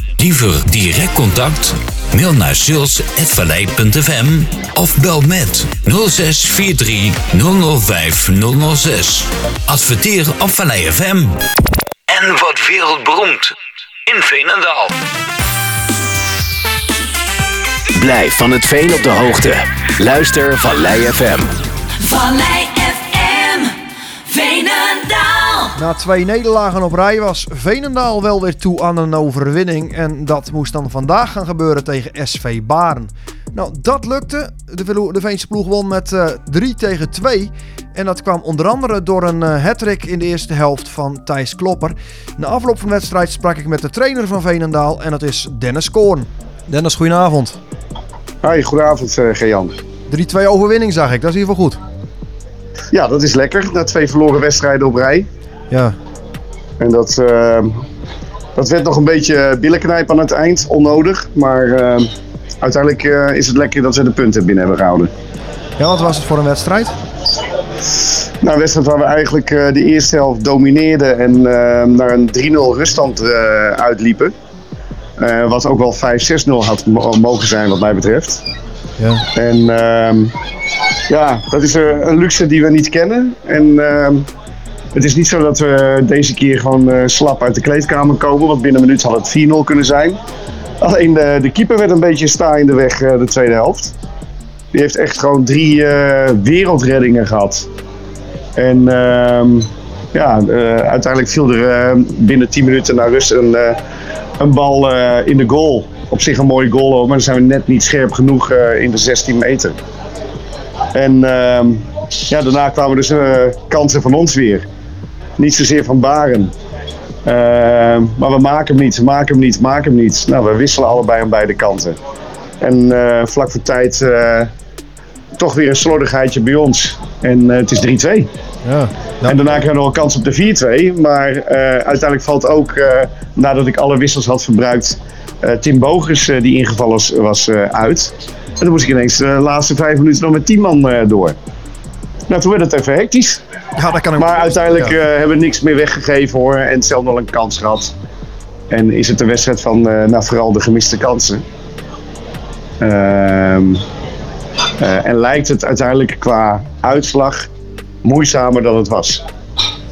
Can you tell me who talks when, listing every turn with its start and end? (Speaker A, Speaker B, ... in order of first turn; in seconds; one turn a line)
Speaker A: 0.2-11.4
Speaker A: 12.1-13.5
Speaker A: 14.1-14.9
Speaker B: 17.9-21.5
Speaker C: 22.0-23.8
Speaker C: 24.3-25.7
Speaker D: 25.7-47.6
Speaker E: 48.4-49.8
Speaker D: 50.1-51.8
Speaker E: 52.9-55.3
Speaker E: 56.8-57.8
Speaker E: 58.5-62.1
Speaker E: 62.6-65.1
Speaker D: 65.8-66.9
Speaker E: 68.4-74.3
Speaker E: 75.2-78.4
Speaker D: 79.0-79.2
Speaker E: 79.3-80.3
Speaker E: 81.1-84.2
Speaker E: 84.9-90.2
Speaker E: 90.8-93.9
Speaker E: 94.7-97.7
Speaker E: 98.6-103.8
Speaker E: 104.4-109.8
Speaker E: 110.9-114.7
Speaker E: 115.4-116.5
Speaker E: 117.2-122.0
Speaker E: 122.6-124.5
Speaker E: 125.4-128.3
Speaker D: 128.6-129.4
Speaker E: 129.2-141.3
Speaker E: 142.3-143.4
Speaker D: 143.8-145.0
Speaker E: 144.2-147.9
Speaker E: 148.7-151.4
Speaker E: 152.8-153.8
Speaker E: 154.8-157.5
Speaker E: 158.0-159.2